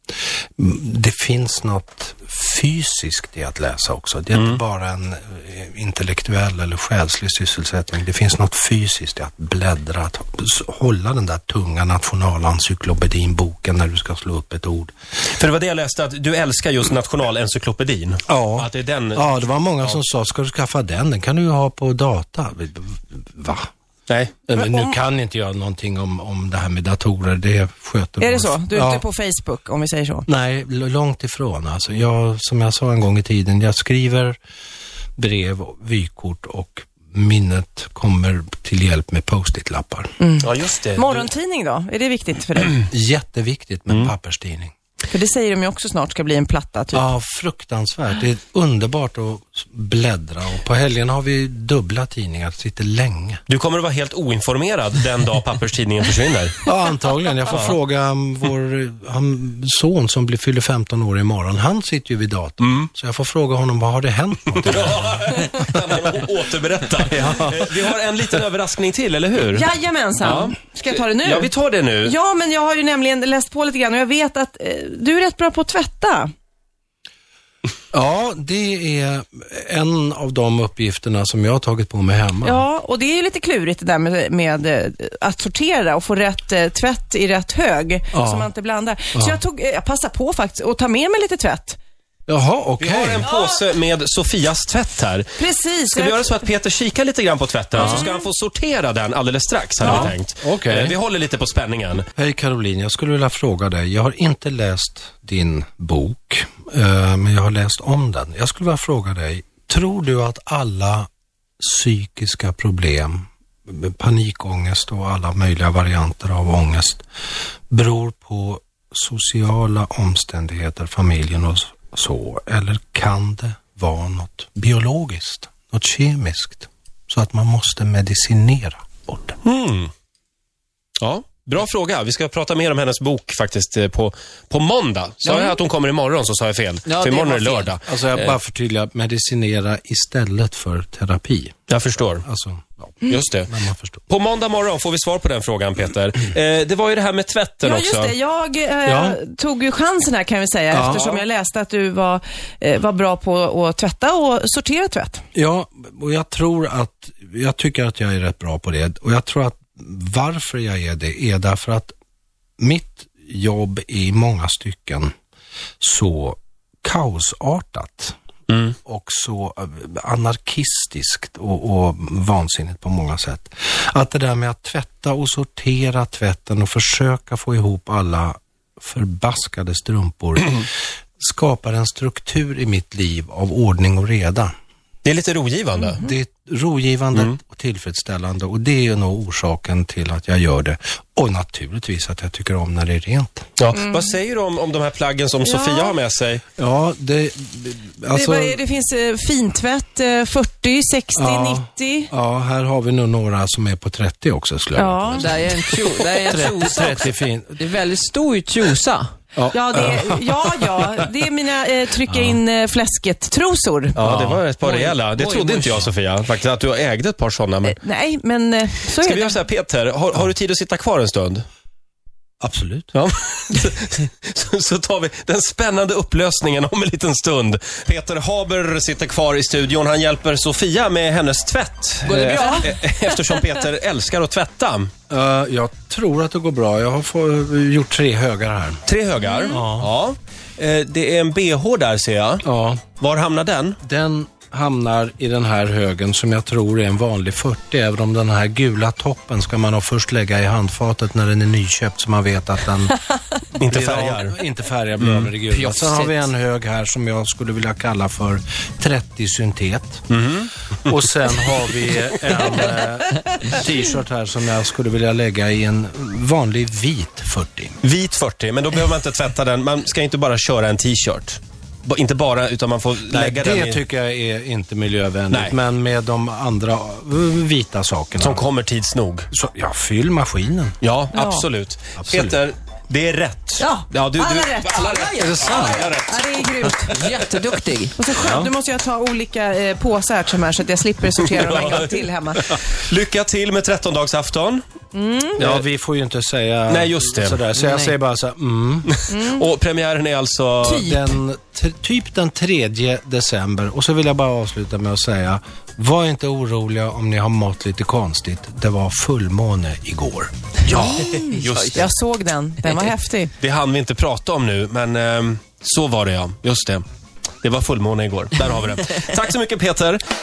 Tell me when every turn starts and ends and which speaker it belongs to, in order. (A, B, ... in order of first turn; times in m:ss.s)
0:00.6-0:14.9 A
0:04.3-0:04.6 B
0:15.3-0:20.0 B
0:18.3-0:23.7 A
0:24.1-0:24.4 B
0:24.5-0:29.0 A
0:28.2-0:30.3 C
0:30.3-0:34.4 A
0:35.2-0:40.2 A
0:40.2-0:42.8 C
0:40.4-0:41.3 B
0:42.8-0:44.7 A
0:45.1-0:47.1 C
0:46.9-0:53.4 A
0:53.5-0:56.6 B
0:56.6-1:05.5 A
1:02.6-1:02.9 B
1:04.6-1:09.7 B
1:07.0-1:07.9 A
1:09.5-1:16.3 C
1:10.2-1:12.2 B
1:17.9-1:22.7 A
1:22.4-1:31.8 C
1:28.1-1:28.5 A
1:29.1-1:29.4 A
1:32.3-1:33.3 A
1:32.8-1:35.3 B
1:35.4-1:36.3 C
1:35.9-1:42.1 B
1:37.8-1:38.1 A
1:37.8-1:38.1 C
1:39.8-1:41.0 A
1:39.9-1:40.1 C
1:42.2-1:51.1 A
1:51.6-1:57.0 A
1:57.7-2:09.4 A
2:09.4-2:09.9 B
2:11.0-2:18.4 B
2:15.2-2:15.6 D
2:16.9-2:17.8 D
2:17.9-2:24.0 A
2:21.7-2:22.2 B
2:23.1-2:23.5 B
2:24.1-2:28.1 B
2:27.6-2:35.2 C
2:28.8-2:29.2 A
2:30.7-2:31.2 A
2:35.3-2:41.9 A
2:42.6-2:45.1 A
2:45.8-2:48.2 A
2:48.5-2:48.8 B
2:48.8-3:04.5 A
3:05.0-3:06.0 B
3:06.0-3:13.5 A
3:13.6-3:16.4 B
3:15.4-3:15.9 C
3:16.6-3:18.6 A
3:18.1-3:22.1 C
3:21.2-3:27.6 A
3:24.8-3:25.4 C
3:25.2-3:29.1 D
3:29.4-3:30.3 A
3:29.5-3:34.0 C
3:32.1-3:32.4 A
3:34.0-3:37.8 B
3:34.0-3:34.4 A
3:34.6-3:35.8 D
3:37.6-3:39.4 C
3:39.0-3:41.4 B
3:42.4-3:42.9 A
3:42.9-3:54.9 B
3:52.1-3:52.7 D
3:52.4-3:52.6 C
3:55.1-3:58.8 A
3:58.9-4:02.4 B
3:59.3-3:59.6 C
3:59.5-3:59.9 A
4:02.4-4:02.8 A
4:03.0-4:03.8 B
4:03.8-4:13.0 A
4:13.6-4:14.4 B
4:13.6-4:20.0 A
4:15.0-4:15.3 B
4:15.5-4:16.2 D
4:20.1-4:21.0 B
4:20.8-4:27.8 A
4:27.8-4:33.8 B
4:33.1-4:38.5 A
4:38.2-4:39.3 B
4:39.3-4:40.8 A
4:40.8-4:46.2 B
4:41.1-4:41.5 C
4:42.0-4:42.4 A
4:43.6-4:47.1 C
4:45.2-4:45.9 A
4:46.9-4:48.0 D
4:48.0-4:52.6 C
4:48.2-4:48.5 A
4:51.2-4:54.6 B
4:54.9-4:55.4 C
4:55.4-4:55.6 B
4:55.4-4:59.0 A
4:56.7-4:57.4 B
4:58.9-5:00.9 B
4:59.1-4:59.4 C
5:00.6-5:10.3 A
5:10.7-5:11.9 B
5:10.7-5:11.8 D
5:10.9-5:13.3 C
5:13.4-5:16.8 B
5:17.4-5:20.0 B